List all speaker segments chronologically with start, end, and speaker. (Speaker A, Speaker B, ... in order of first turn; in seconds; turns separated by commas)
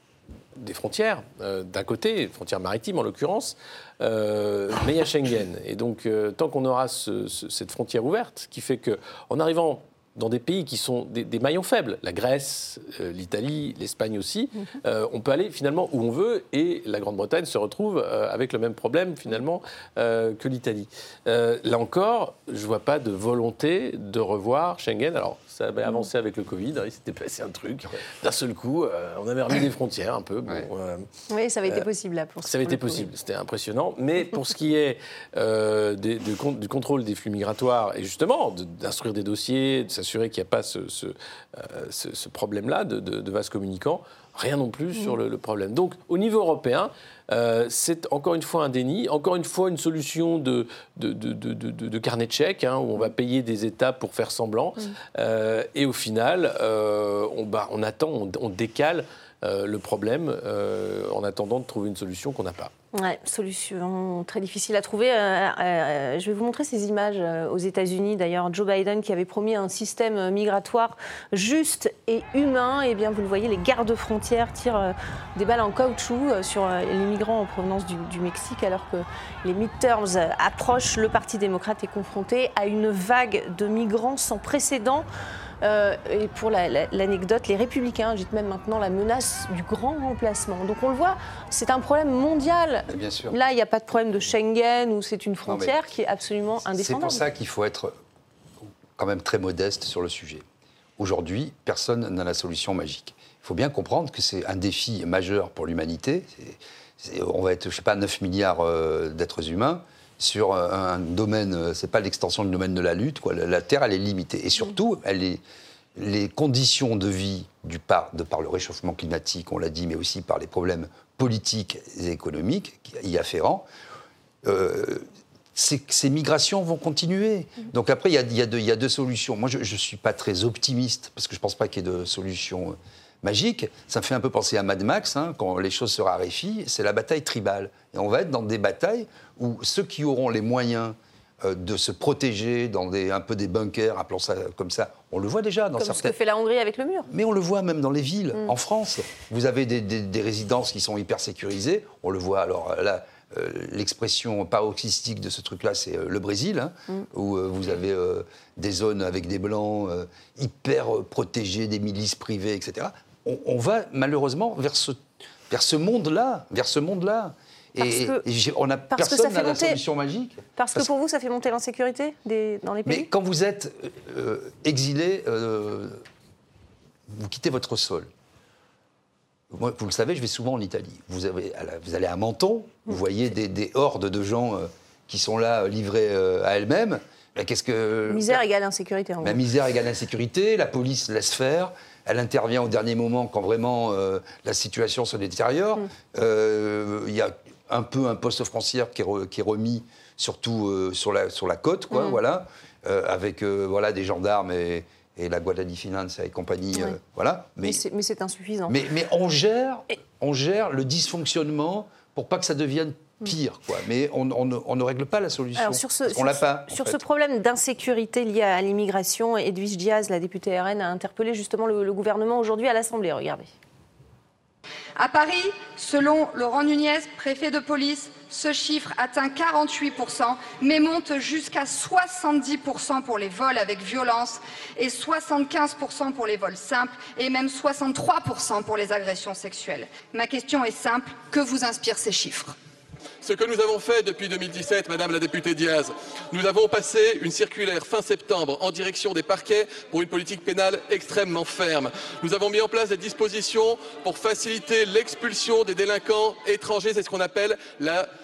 Speaker A: 0.6-31.1, Speaker B: 31.3-33.1, Speaker A: 32.4-62.7, Speaker B: 62.9-85.1, Speaker B: 85.6-97.2, Speaker C: 92.9-93.4, Speaker C: 95.5-95.8, Speaker C: 96.8-97.9, Speaker C: 99.0-100.5, Speaker C: 101.0-115.4, Speaker C: 116.0-123.7, Speaker C: 124.4-146.2, Speaker B: 145.8-147.1, Speaker C: 147.1-170.9, Speaker B: 167.8-168.2, Speaker B: 168.9-169.8, Speaker B: 170.6-173.1, Speaker C: 172.9-176.1, Speaker C: 177.1-178.1, Speaker C: 179.5-188.4, Speaker B: 188.1-189.4, Speaker C: 189.2-207.8, Speaker B: 201.9-202.2, Speaker B: 207.6-208.8, Speaker C: 208.7-217.0, Speaker B: 215.6-223.5, Speaker D: 225.0-242.6, Speaker E: 243.2-258.1